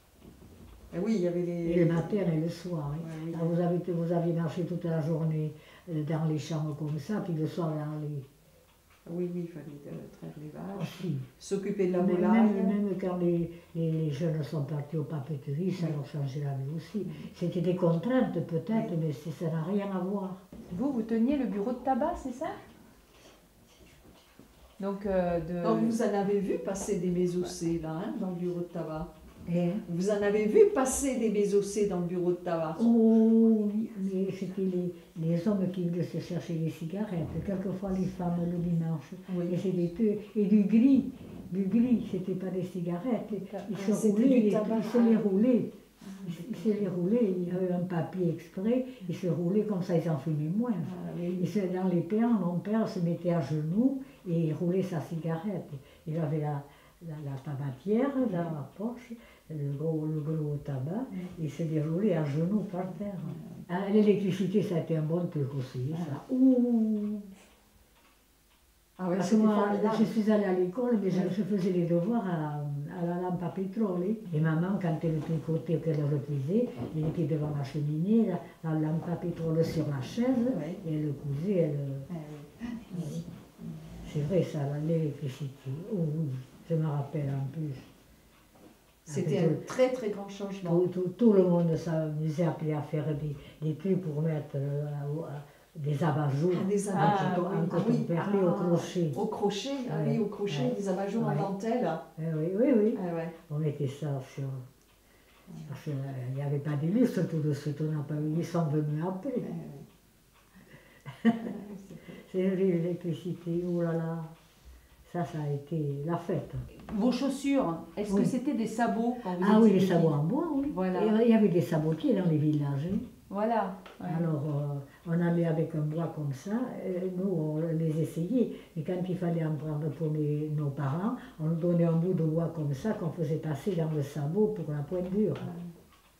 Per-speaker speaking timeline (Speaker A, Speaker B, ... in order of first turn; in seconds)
Speaker A: 0.9-2.2, 3.0-3.6, 9.1-12.8, 17.0-17.3, 18.7-19.0, 25.6-29.1, 29.9-32.9, 39.3-39.6, 43.5-45.2, 46.0-46.9, 50.8-51.5, 58.2-58.5, 63.2-63.7, 65.9-66.2, 69.0-70.1, 80.5-80.8, 82.1-83.8, 89.1-90.8, 96.5-102.0, 102.9-103.3, 109.4-109.9, 111.4-112.2, 135.4-135.7
Speaker B: 1.6-8.3, 10.8-11.3, 12.0-20.4, 29.5-29.8, 32.8-45.7, 46.2-67.3, 69.2-82.1, 82.9-83.2, 84.0-87.9, 89.1-89.7, 90.6-99.2, 99.9-101.5, 102.2-104.6, 105.6-109.5, 111.2-111.5, 112.1-114.3, 115.0-116.7, 118.1-118.3, 119.4-123.1, 124.0-135.5
Speaker C: 20.7-22.6, 24.8-26.0, 96.9-97.5, 116.7-120.2, 120.7-121.1, 123.3-124.3